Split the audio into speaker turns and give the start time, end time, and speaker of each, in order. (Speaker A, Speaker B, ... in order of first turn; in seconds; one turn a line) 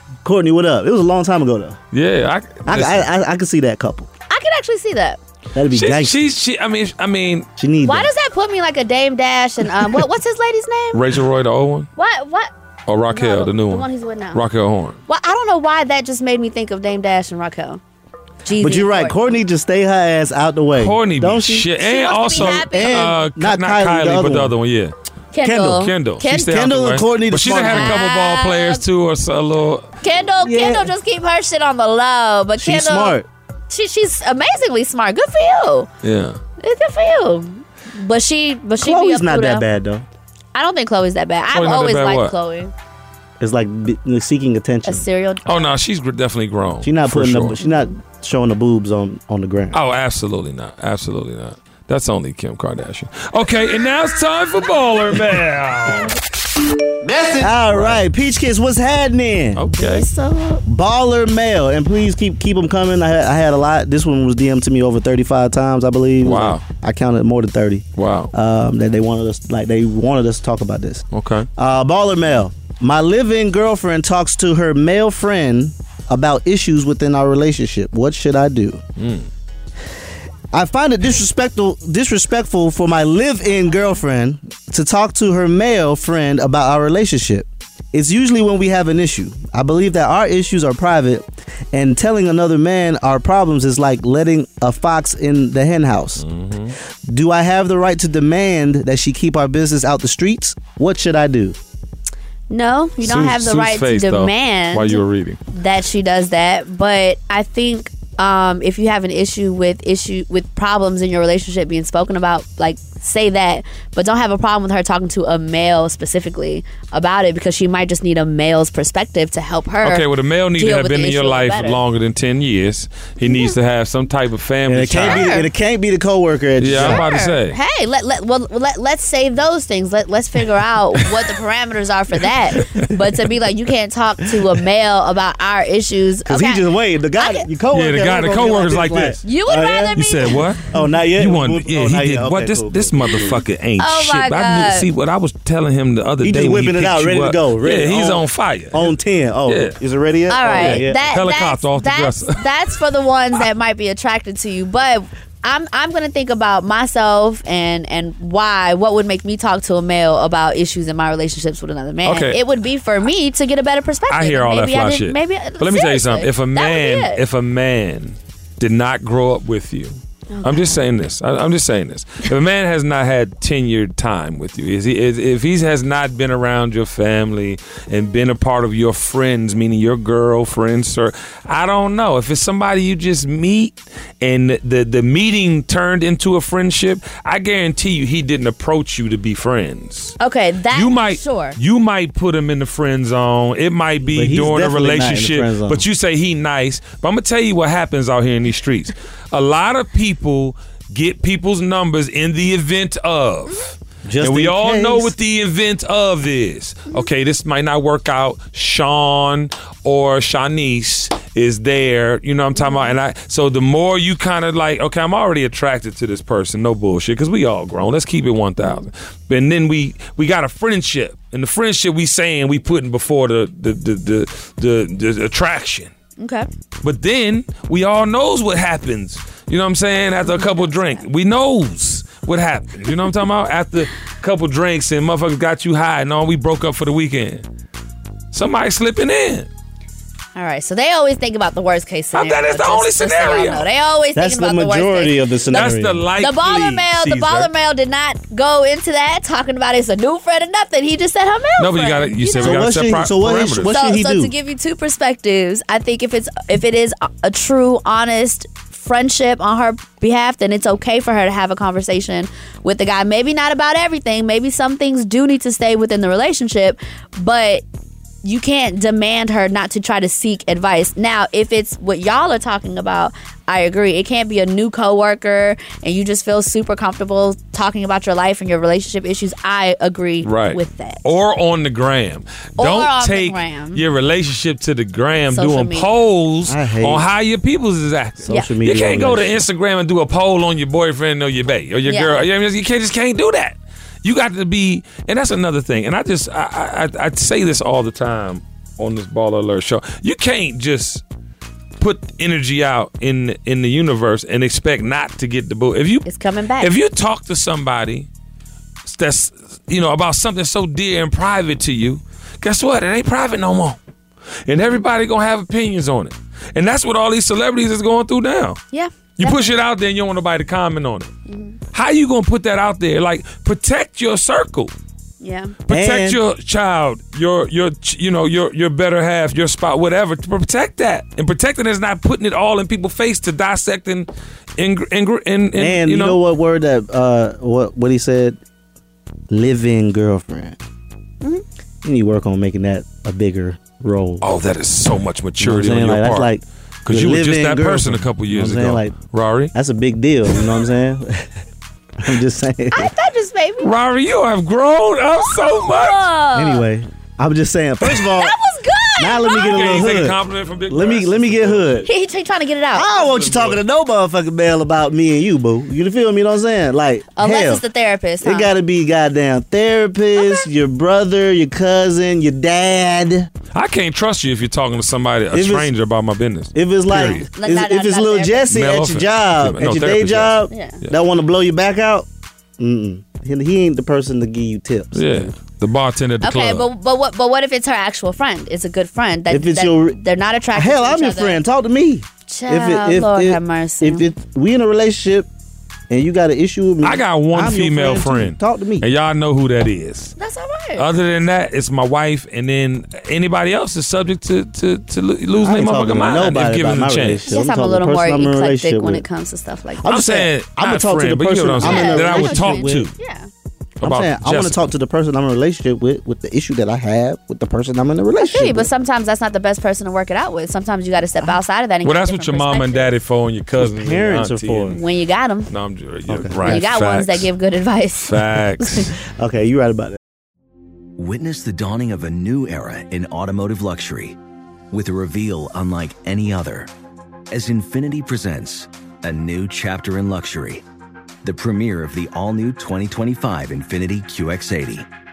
Speaker A: 0.2-1.8
Speaker B: 1.9-3.1
Speaker A: 2.6-4.1
Speaker C: 4.3-5.2
Speaker A: 5.5-6.2
Speaker B: 5.7-7.5
Speaker A: 7.6-8.1
Speaker C: 7.8-11.0
Speaker B: 10.9-11.9
Speaker C: 11.9-12.5
Speaker B: 12.9-15.0
Speaker C: 13.1-14.4
Speaker C: 15.1-17.8
Speaker C: 18.4-19.2
Speaker A: 18.6-21.6
Speaker B: 20.7-24.9
Speaker C: 21.8-23.1
Speaker A: 22.3-24.5
Speaker C: 25.3-26.5
Speaker A: 25.4-28.0
Speaker B: 25.6-29.9
Speaker C: 27.6-28.8
Speaker C: 30.0-33.2
Speaker A: 30.4-30.9
Speaker A: 32.6-33.3
Speaker C: 33.7-35.9
Speaker B: 36.0-36.4
Speaker C: 36.6-39.6
Speaker A: 38.8-40.0
Speaker C: 40.5-42.7
Speaker B: 41.5-42.3
Speaker A: 43.4-45.0
Speaker C: 44.8-45.4
Speaker B: 45.4-47.5
Speaker A: 46.8-49.8
Speaker B: 49.7-56.1
Speaker A: 57.0-59.6
Speaker B: 57.7-58.0
Speaker B: 59.5-60.0
Speaker C: 59.7-60.6
Speaker A: 60.6-71.0
Speaker B: 66.2-66.6
Speaker B: 68.0-68.3
Speaker B: 71.1-71.5
Speaker A: 71.6-78.8
Speaker B: 79.0-79.3
Speaker A: 80.5-96.2
Speaker B: 96.2-96.7
Speaker A: 97.1-101.6
Speaker C: 102.5-121.8
Speaker B: 103.0-105.4
Speaker B: 119.8-125.3
Speaker C: 123.2-123.5
Speaker A: 124.7-127.0
Speaker C: 125.0-125.5
Speaker B: 126.6-127.6
Speaker C: 126.8-136.6
Speaker A: 136.2-140.0
Speaker C: 137.2-137.5
Speaker B: 137.7-139.2
Speaker C: 139.2-140.4
Speaker B: 139.9-148.9
Speaker A: 140.6-143.4
Speaker C: 143.8-144.9
Speaker A: 146.2-151.1
Speaker B: 149.5-149.8
Speaker C: 150.3-167.2
Speaker B: 150.5-152.4
Speaker B: 162.0-162.4
Speaker B: 164.1-190.2
Speaker C: 170.3-170.7
Speaker C: 190.2-191.6
Speaker B: 190.7-225.9
Speaker A: 194.1-195.8
Speaker A: 204.0-205.1
Speaker C: 212.6-212.9
Speaker C: 218.6-218.9
Speaker C: 226.2-226.5
Speaker B: 226.8-237.4
Speaker C: 230.2-231.0
Speaker B: 238.3-239.5
Speaker C: 240.3-252.6
Speaker B: 242.1-243.7
Speaker A: 244.1-246.1
Speaker B: 245.5-247.5
Speaker B: 251.6-253.7
Speaker A: 252.4-254.3
Speaker C: 253.7-267.6
Speaker C: 268.2-281.0
Speaker B: 280.2-301.0
Speaker C: 282.6-283.8
Speaker C: 285.3-285.9
Speaker A: 286.4-287.1
Speaker A: 288.2-289.4
Speaker C: 291.9-292.2
Speaker B: 301.8-306.1
Speaker C: 306.1-306.7
Speaker B: 306.6-308.1
Speaker B: 308.8-313.8
Speaker B: 314.4-318.6
Speaker C: 318.7-319.6
Speaker B: 319.2-321.1
Speaker C: 321.3-321.6
Speaker B: 321.7-324.7
Speaker C: 325.2-325.5
Speaker B: 325.7-336.2
Speaker A: 325.7-326.2
Speaker A: 335.6-338.4
Speaker A: 339.3-340.6
Speaker A: 341.8-344.3
Speaker B: 344.2-346.3
Speaker A: 345.4-348.9
Speaker B: 346.9-349.5
Speaker A: 349.5-351.3
Speaker A: 352.0-352.9
Speaker C: 352.7-353.7
Speaker B: 353.6-356.1
Speaker C: 355.6-356.6
Speaker A: 356.3-358.3
Speaker C: 357.8-359.9
Speaker A: 359.0-360.2
Speaker B: 359.4-361.7
Speaker A: 360.7-361.9
Speaker C: 361.8-362.9
Speaker A: 362.7-367.6
Speaker B: 363.0-363.6
Speaker C: 367.1-368.5
Speaker A: 368.2-373.3
Speaker C: 370.1-370.5
Speaker B: 373.5-377.2
Speaker A: 375.3-375.7
Speaker A: 376.5-382.1
Speaker C: 376.9-378.5
Speaker B: 378.5-380.9
Speaker C: 380.5-380.8
Speaker A: 382.6-385.3
Speaker B: 384.9-386.7
Speaker C: 386.2-391.4
Speaker A: 389.3-390.0
Speaker A: 390.5-395.3
Speaker C: 392.3-394.0
Speaker A: 395.9-398.9
Speaker B: 396.8-400.1
Speaker C: 400.2-400.9
Speaker B: 400.8-407.3
Speaker A: 405.4-409.0
Speaker C: 407.3-409.9
Speaker A: 409.8-412.9
Speaker B: 409.9-412.9
Speaker C: 411.6-413.3
Speaker B: 413.8-414.6
Speaker A: 413.8-418.7
Speaker C: 418.2-422.9
Speaker B: 421.8-424.8
Speaker A: 423.5-424.8
Speaker C: 424.7-425.5
Speaker B: 425.5-427.3
Speaker A: 426.1-426.6
Speaker C: 426.4-428.9
Speaker B: 428.0-428.9
Speaker A: 429.0-430.0
Speaker D: 430.9-434.2
Speaker D: 434.7-436.7
Speaker D: 437.3-440.6
Speaker D: 441.2-444.9